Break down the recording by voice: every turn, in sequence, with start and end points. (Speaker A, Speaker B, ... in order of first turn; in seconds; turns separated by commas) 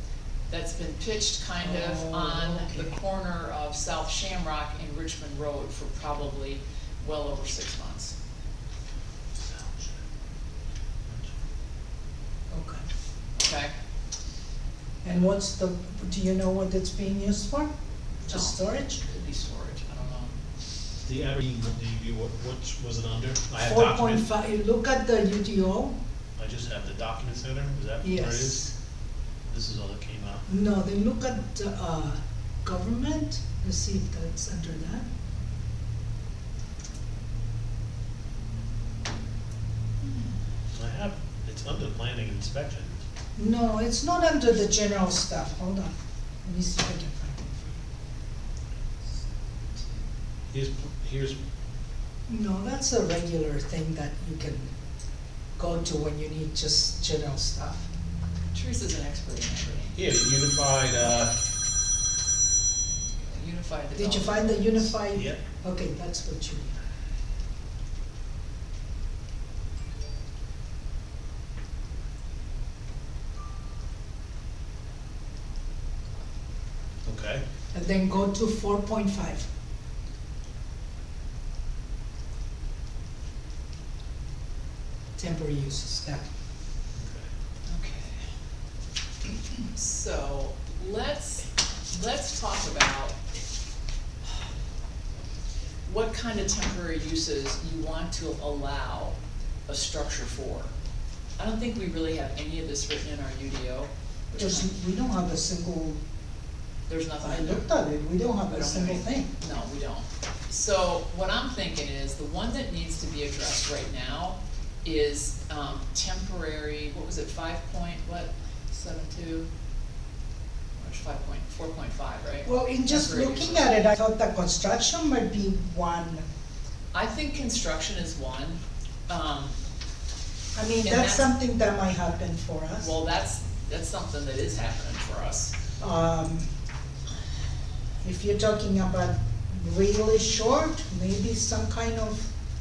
Speaker A: 0.5-8.1, Speaker B: 1.6-3.0, Speaker C: 9.5-9.8, Speaker B: 12.5-12.8, Speaker A: 13.4-13.7, Speaker B: 15.0-17.7, Speaker B: 18.3-19.0, Speaker A: 18.3-20.4, Speaker C: 21.0-24.2, Speaker B: 23.6-26.0, Speaker C: 26.4-28.7, Speaker B: 28.0-28.7, Speaker C: 29.5-30.4, Speaker B: 30.5-35.1, Speaker C: 40.7-43.0, Speaker B: 43.4-45.9, Speaker B: 46.4-47.8, Speaker C: 50.5-51.4, Speaker B: 52.3-54.7, Speaker B: 55.6-57.9, Speaker A: 58.5-60.0, Speaker C: 60.0-61.3, Speaker A: 63.2-64.9, Speaker B: 64.0-66.8, Speaker C: 65.1-65.4, Speaker C: 77.0-77.4, Speaker B: 77.7-79.5, Speaker B: 85.2-86.2, Speaker C: 87.0-87.3, Speaker A: 87.7-88.2, Speaker A: 89.7-93.2, Speaker A: 95.9-99.2, Speaker A: 99.7-100.7, Speaker A: 101.4-104.7, Speaker B: 104.4-106.0, Speaker A: 106.9-107.7, Speaker B: 107.2-109.3, Speaker A: 108.5-119.5, Speaker A: 120.8-123.9, Speaker B: 122.5-126.2, Speaker A: 126.9-129.6, Speaker B: 130.6-132.9, Speaker A: 130.8-131.3, Speaker A: 132.8-135.6, Speaker B: 135.8-136.5, Speaker B: 138.0-142.3